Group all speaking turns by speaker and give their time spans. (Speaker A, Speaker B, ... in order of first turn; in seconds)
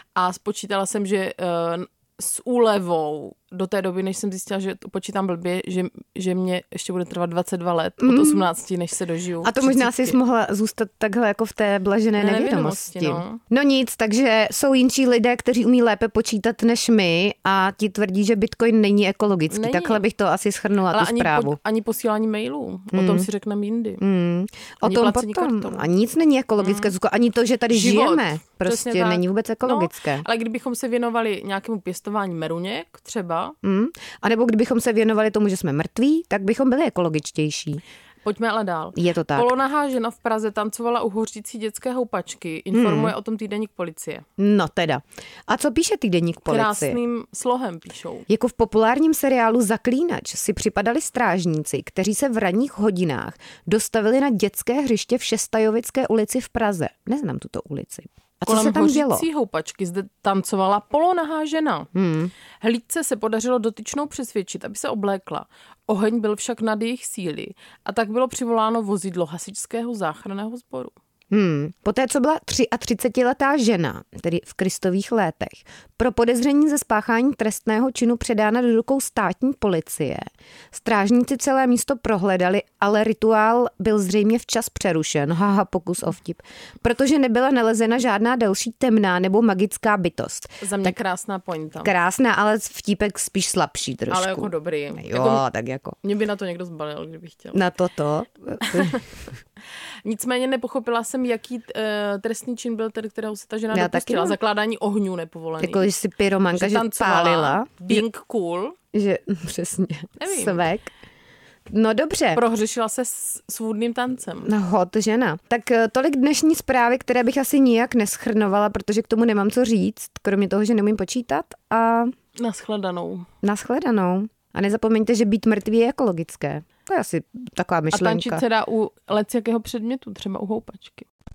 Speaker A: 0.1-10.2, 12.2-13.4, 19.5-20.1, 20.9-24.0, 24.8-25.9, 26.6-26.9, 27.7-33.5, 38.2-44.2, 46.5-48.3, 58.5-61.9, 62.6-70.9, 90.6-91.9, 94.1-95.5, 96.0-97.6, 98.6-99.0, 100.0-105.9, 106.5-108.8, 110.2-110.7, 112.3-114.5, 122.4-123.3, 127.9-131.1
Speaker B: 8.0-8.5, 9.4-21.6, 22.9-23.3, 24.0-30.3, 33.6-37.8, 39.0-39.5, 42.7-43.1, 44.4-47.0, 48.3-59.3, 61.9-62.3, 71.3-91.0, 91.8-96.0, 97.5-99.0, 103.7-104.4, 105.6-108.0, 108.9-110.9, 111.7-112.5, 114.4-122.1, 123.4-128.4